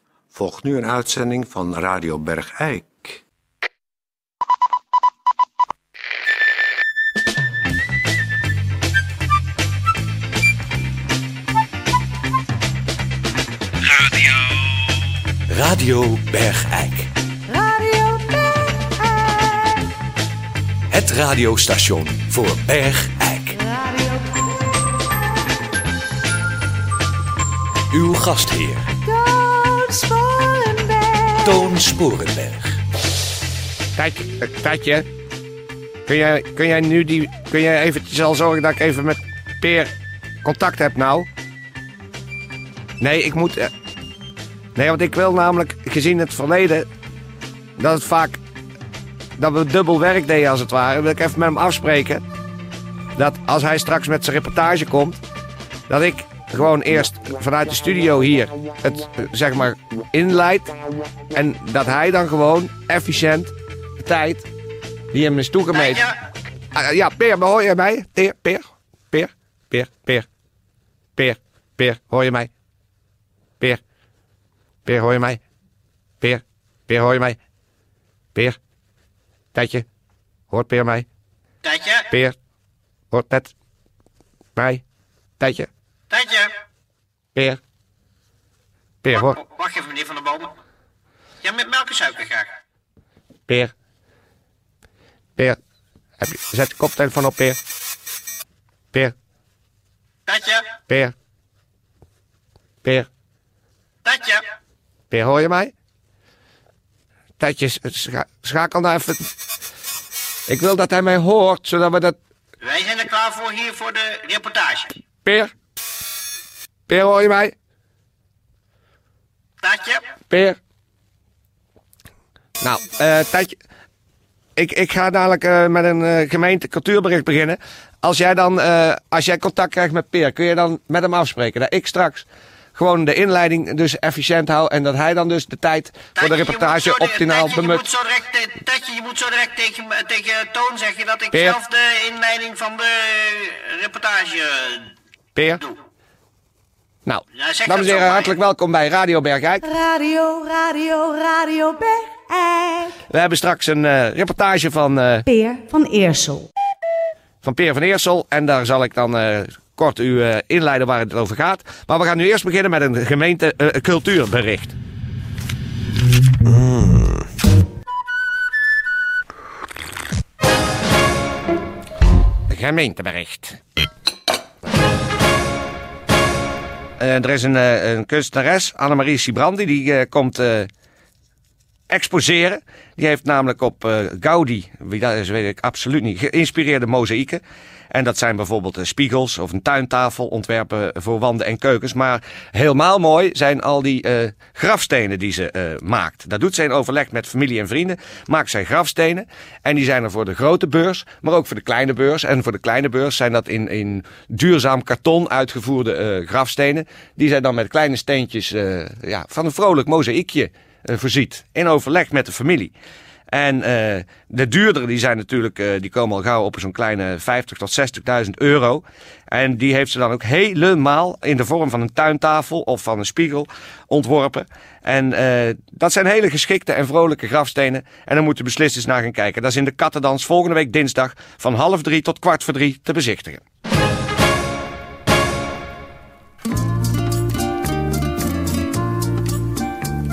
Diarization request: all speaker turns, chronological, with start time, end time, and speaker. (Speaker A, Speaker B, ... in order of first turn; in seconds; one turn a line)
Speaker A: 0.3-3.2
Speaker B: 15.5-17.1
Speaker C: 17.5-18.5
Speaker C: 19.0-19.4
Speaker B: 20.9-23.5
Speaker C: 23.6-24.2
Speaker B: 27.9-28.9
Speaker C: 29.1-31.4
Speaker B: 31.5-32.8
Speaker D: 34.0-35.1
Speaker D: 36.1-39.9
Speaker D: 40.4-41.3
Speaker D: 43.0-43.7
Speaker D: 44.8-46.9
Speaker D: 47.8-48.4
Speaker D: 49.4-52.2
Speaker D: 53.2-55.2
Speaker D: 55.9-60.7
Speaker D: 61.3-64.5
Speaker D: 65.1-66.1
Speaker E: 65.8-66.1
Speaker D: 66.7-70.3
Speaker D: 71.2-72.5
Speaker D: 74.9-75.4
Speaker D: 76.2-77.4
Speaker D: 79.5-79.8
Speaker D: 80.5-81.1
Speaker E: 81.6-82.1
Speaker D: 82.1-82.3
Speaker D: 83.1-83.5
Speaker D: 84.6-84.8
Speaker D: 85.4-85.7
Speaker E: 86.1-86.5
Speaker D: 89.0-89.4
Speaker E: 89.1-90.5
Speaker E: 91.4-92.5
Speaker D: 96.2-97.6
Speaker E: 100.3-100.7
Speaker D: 100.9-101.1
Speaker E: 104.1-104.4
Speaker D: 105.1-105.7
Speaker D: 107.4-109.3
Speaker D: 110.5-112.2
Speaker E: 112.6-115.0
Speaker D: 115.2-115.5
Speaker D: 116.9-117.5
Speaker E: 119.6-120.0
Speaker D: 120.3-120.6
Speaker D: 122.6-123.5
Speaker D: 124.6-137.8
Speaker E: 136.2-144.9
Speaker D: 141.3-141.6
Speaker D: 145.3-145.6
Speaker D: 147.1-149.7
Speaker E: 147.4-148.3
Speaker C: 149.7-152.9
Speaker D: 153.1-155.3
Speaker C: 155.3-156.5
Speaker D: 157.4-164.8
Speaker D: 172.5-173.6
Speaker D: 177.0-180.7
Speaker D: 181.9-212.7
Speaker D: 213.3-233.4